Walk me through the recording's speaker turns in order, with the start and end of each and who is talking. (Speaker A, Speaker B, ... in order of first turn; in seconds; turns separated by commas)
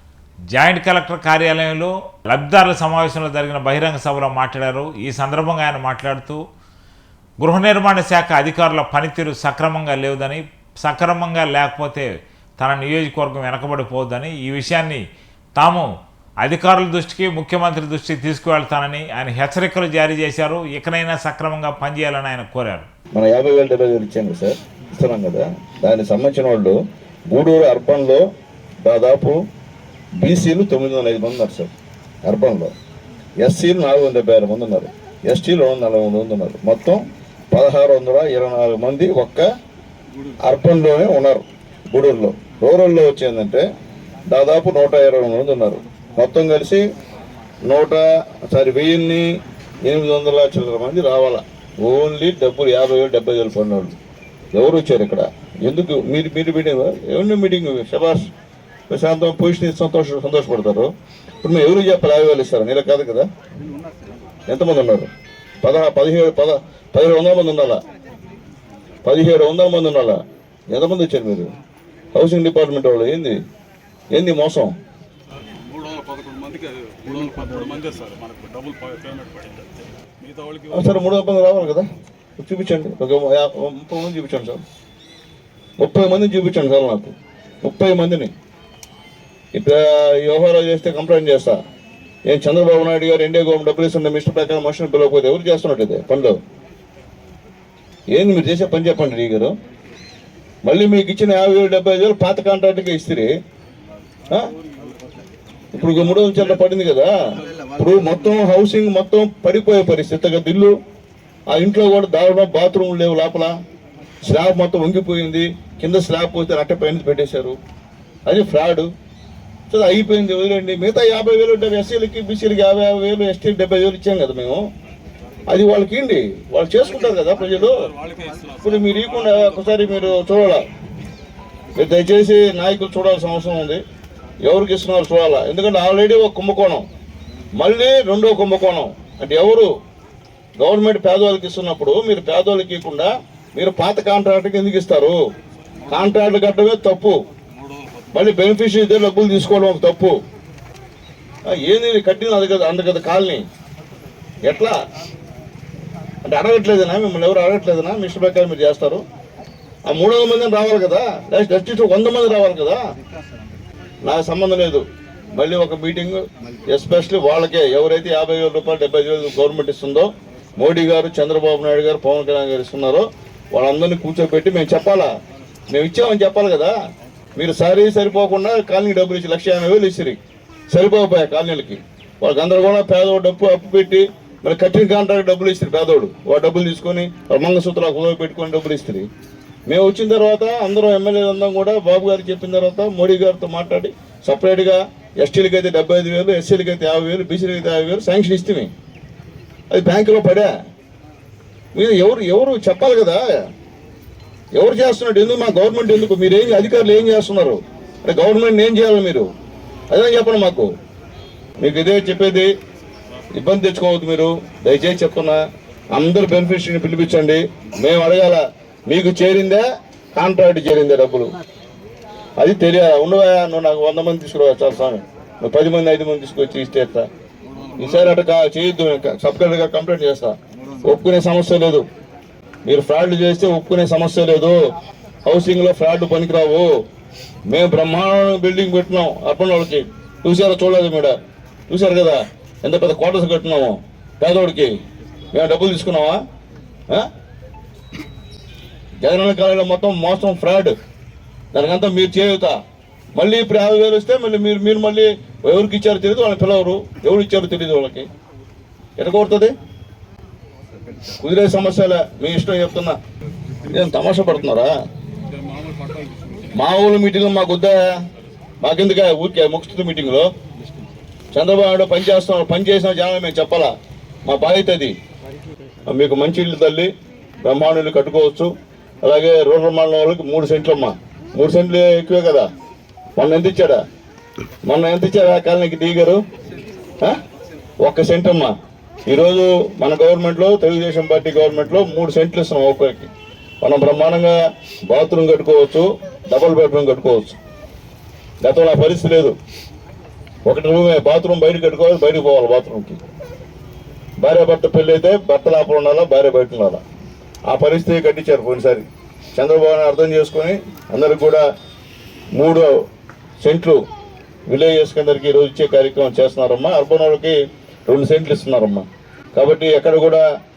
Speaker A: 0.5-6.4, Speaker A: 7.4-15.0, Speaker A: 15.6-15.9, Speaker A: 16.4-22.9, Speaker B: 23.1-28.3, Speaker B: 28.8-29.4, Speaker B: 30.2-31.7, Speaker B: 32.3-32.7, Speaker B: 33.4-39.5, Speaker B: 40.4-43.6, Speaker B: 44.3-46.8, Speaker B: 47.6-49.3, Speaker B: 49.8-54.0, Speaker B: 54.5-58.3, Speaker B: 58.9-60.9, Speaker B: 61.4-63.3, Speaker B: 64.5-65.1, Speaker B: 65.6-67.8, Speaker B: 69.0-70.2, Speaker B: 70.7-71.5, Speaker B: 72.1-73.4, Speaker B: 74.1-74.7, Speaker C: 75.6-81.0, Speaker B: 80.7-81.8, Speaker B: 82.4-84.6, Speaker B: 85.8-88.3, Speaker B: 89.5-91.6, Speaker B: 92.3-96.4, Speaker B: 98.1-99.5, Speaker B: 100.7-103.3, Speaker C: 104.3-105.0, Speaker B: 105.7-110.7, Speaker C: 105.9-106.4, Speaker B: 111.5-113.6, Speaker B: 114.2-117.6, Speaker B: 118.3-118.9, Speaker B: 119.7-124.7, Speaker B: 125.5-127.8, Speaker C: 127.1-130.1, Speaker B: 128.6-130.7, Speaker B: 131.8-133.8, Speaker B: 134.4-136.9, Speaker B: 137.6-139.7, Speaker B: 140.6-145.2, Speaker C: 145.8-146.1, Speaker B: 145.9-147.2, Speaker C: 147.5-148.1, Speaker B: 148.1-150.2, Speaker B: 151.5-153.4, Speaker B: 154.4-154.8, Speaker B: 156.2-159.0, Speaker B: 159.9-162.8, Speaker B: 164.0-175.1, Speaker B: 175.7-176.7, Speaker B: 177.4-180.2, Speaker B: 180.7-189.1, Speaker B: 189.7-198.7, Speaker B: 199.7-200.5, Speaker B: 201.8-203.5, Speaker B: 204.6-209.3, Speaker B: 209.9-210.7, Speaker B: 211.6-212.5, Speaker B: 213.3-219.6, Speaker B: 220.2-221.4, Speaker B: 222.4-227.1, Speaker C: 227.5-228.1, Speaker B: 227.8-231.8, Speaker B: 232.7-234.6, Speaker B: 235.2-236.7, Speaker B: 237.5-241.2, Speaker B: 241.7-244.8, Speaker B: 245.3-246.2, Speaker B: 249.0-250.8, Speaker B: 251.5-252.6, Speaker B: 253.2-258.1, Speaker B: 259.0-259.6, Speaker B: 261.1-263.0, Speaker B: 263.7-264.7, Speaker C: 265.2-266.6, Speaker B: 266.5-267.9, Speaker B: 268.6-270.3, Speaker B: 271.3-273.7, Speaker B: 274.2-274.9, Speaker B: 275.9-276.9, Speaker B: 277.4-278.5, Speaker B: 279.0-282.5, Speaker B: 283.2-283.8, Speaker B: 284.7-286.2, Speaker B: 287.8-288.5, Speaker B: 289.1-293.1, Speaker B: 293.6-294.4, Speaker B: 294.9-297.4, Speaker B: 298.4-299.4, Speaker B: 300.5-303.0, Speaker B: 304.2-306.8, Speaker B: 307.5-311.4, Speaker B: 312.4-312.7, Speaker B: 313.4-313.8, Speaker B: 314.5-320.2